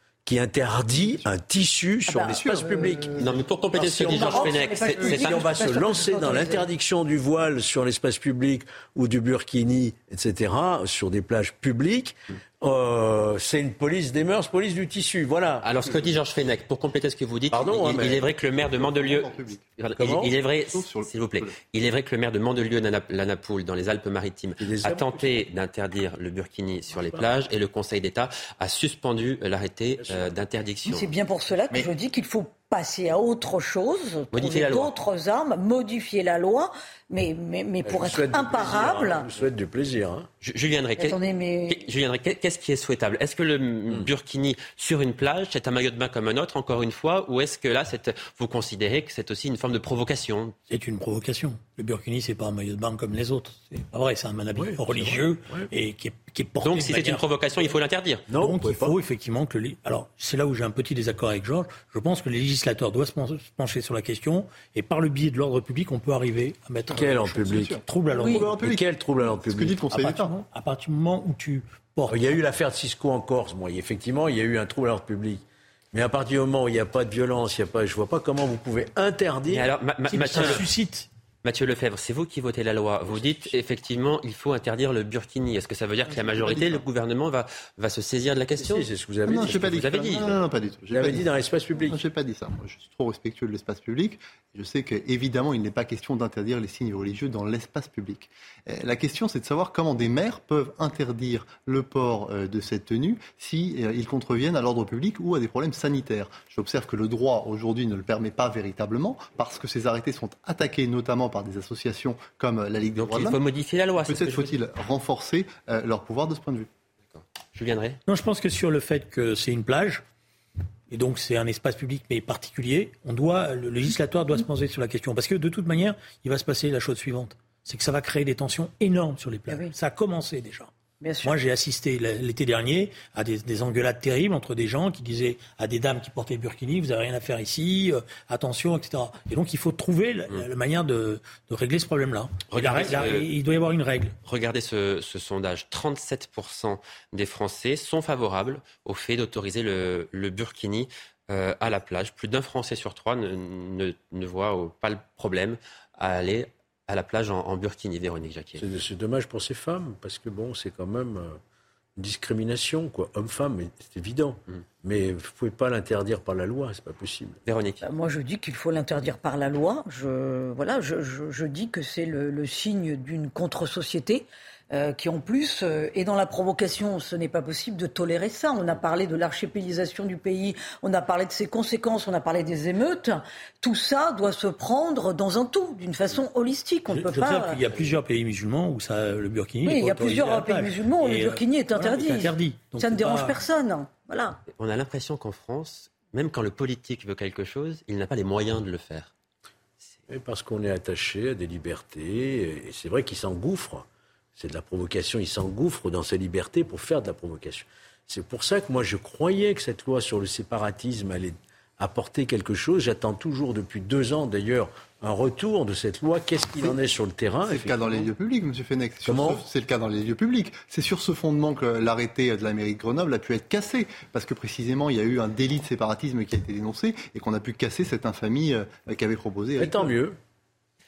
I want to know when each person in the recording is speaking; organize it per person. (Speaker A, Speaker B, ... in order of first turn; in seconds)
Speaker A: 0.2-3.3, 3.8-16.0, 17.5-18.3, 20.0-20.3, 24.6-25.4, 30.0-30.3, 37.8-40.3, 54.5-55.7, 58.3-59.0, 66.9-67.8, 68.3-69.8, 72.1-79.7, 80.3-80.6, 83.2-83.5, 88.5-89.9, 90.9-92.0, 158.6-161.4, 162.0-167.4, 187.7-188.0, 200.1-218.1, 219.1-219.4, 229.6-230.2
Speaker B: 2.1-3.2, 3.9-6.7, 30.9-39.3, 41.0-41.9, 131.0-131.3, 167.8-187.6, 189.6-194.4
Speaker C: 3.2-5.5, 15.6-31.1, 34.3-34.9, 40.4-50.5, 56.6-58.3, 79.5-80.7, 81.4-88.9, 89.4-90.4, 113.0-114.6, 117.1-118.0, 142.5-143.3, 144.2-158.6, 167.4-167.8, 194.5-199.1
Speaker D: 18.6-19.6, 20.7-21.6, 67.3-70.3, 89.3-91.3, 91.8-113.4, 114.0-116.7, 217.4-229.9
Speaker E: 50.7-57.2, 58.4-68.5, 69.9-72.4, 80.1-81.1, 118.1-120.0, 120.9-130.7, 131.2-144.2, 186.9-193.4